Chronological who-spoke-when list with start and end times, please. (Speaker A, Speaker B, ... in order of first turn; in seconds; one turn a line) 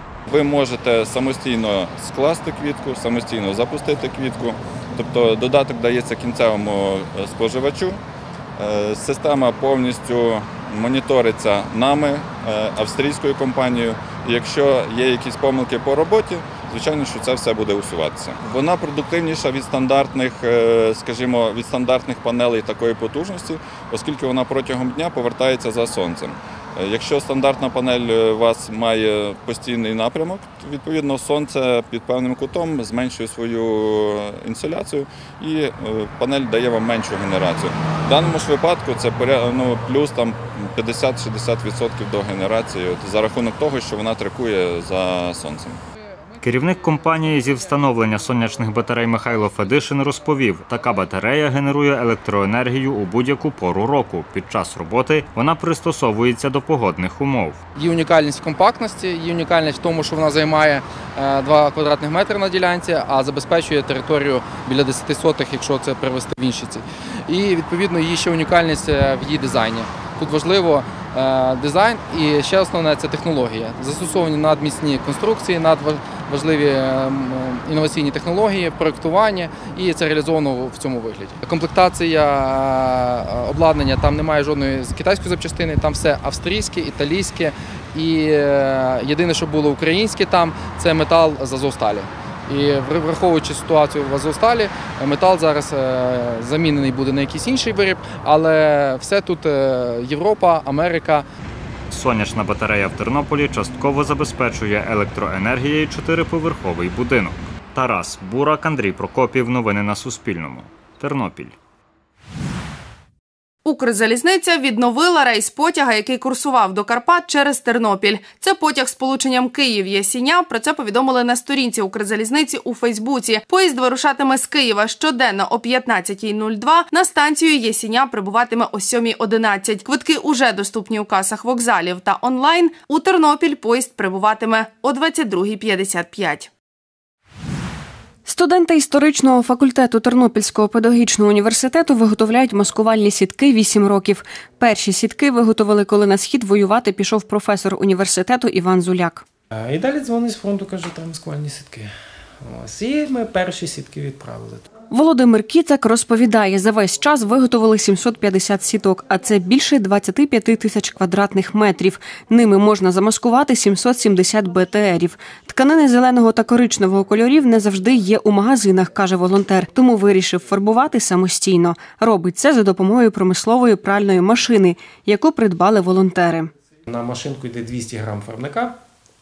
Speaker A: 0.3-8.0
Speaker A: 8.6-45.8
Speaker B: 46.4-57.6
Speaker C: 47.1-47.5
Speaker C: 57.8-101.2
Speaker B: 101.9-111.5
Speaker D: 113.6-136.5
Speaker E: 138.3-149.2
Speaker F: 149.5-151.9
Speaker F: 152.4-154.7
Speaker E: 154.9-176.5
Speaker F: 176.9-178.8